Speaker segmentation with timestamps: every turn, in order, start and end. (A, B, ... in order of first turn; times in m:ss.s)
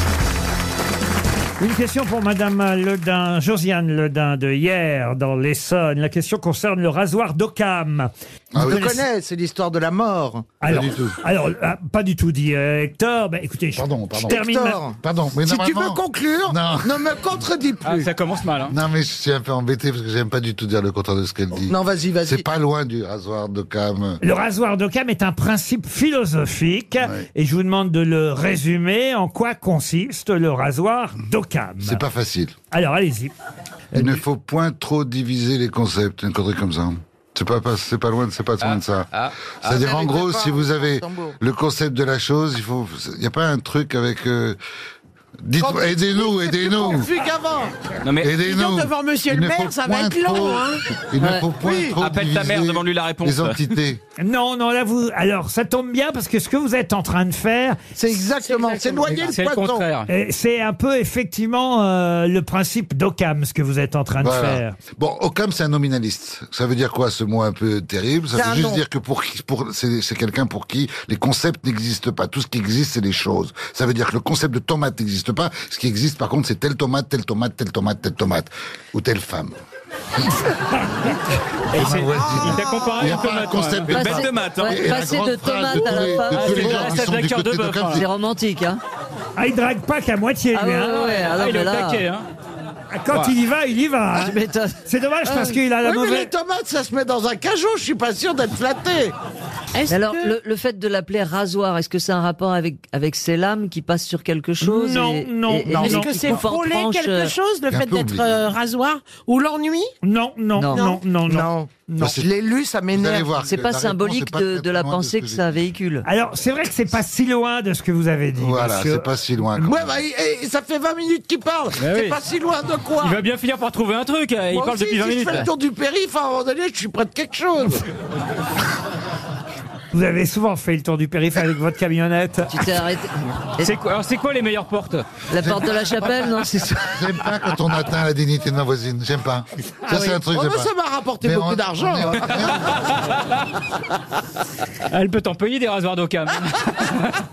0:01.6-0:09.0 A
0:08.5-0:08.9 B
0:08.6-0:10.5 C
0:10.6-0:14.8 A
0:10.7-0:11.2 B
0:13.7-0:14.4 B
0:14.3-0:18.1 C
0:15.0-0:17.2 B
0:17.8-0:18.8 D
0:18.6-0:24.2 B
0:21.6-0:22.4 C
0:24.2-0:32.0 A
0:31.8-0:32.5 B
0:32.7-0:33.3 A
0:33.9-0:34.2 A
0:33.9-0:44.6 B
0:39.6-0:41.4 C
0:45.4-0:47.1 B
0:45.6-0:47.7 C
0:48.0-0:48.3 E
0:48.2-0:54.0 B
0:48.4-0:50.8 F
0:51.2-0:51.5 G
0:51.6-0:51.9 C
0:52.0-0:53.7 E
0:54.2-0:57.8 A
0:57.9-0:59.9 C
0:58.4-0:59.4 F
0:59.3-1:00.1 D
1:00.1-1:04.8 A
1:04.2-1:19.6 B
1:08.3-1:08.8 C
1:21.7-1:28.1 B
1:21.7-1:24.0 D
1:22.1-1:23.5 C
1:23.9-1:27.0 G
1:23.9-1:24.8 E
1:26.3-1:28.0 D
1:27.9-1:28.8 G
1:29.4-1:31.3 A
1:30.5-1:32.0 G
1:31.1-1:32.2 D
1:32.9-1:36.3 A
1:34.1-1:34.8 G
1:35.3-1:35.6 G
1:35.8-1:39.1 C
1:39.7-1:40.3 F
1:39.9-1:47.3 G
1:44.6-1:46.3 A
1:45.7-1:49.9 F
1:47.7-1:48.4 B
1:50.0-1:52.2 A
1:50.6-1:50.9 G
1:50.7-1:51.0 F
1:51.3-1:53.3 C
1:52.0-1:52.3 B
1:52.9-1:55.5 B
1:53.4-1:56.0 G
1:56.0-1:59.1 A
1:58.4-2:00.0 B
1:59.6-2:03.2 C
2:01.8-2:02.2 D
2:03.0-2:05.5 D
2:04.5-2:07.8 C
2:09.9-2:12.6 A
2:12.5-2:13.8 G
2:13.6-2:15.0 D
2:15.3-2:17.2 G
2:15.4-2:16.2 B
2:16.8-2:20.7 B
2:19.9-2:22.4 C
2:21.2-2:22.8 B
2:24.9-2:27.2 D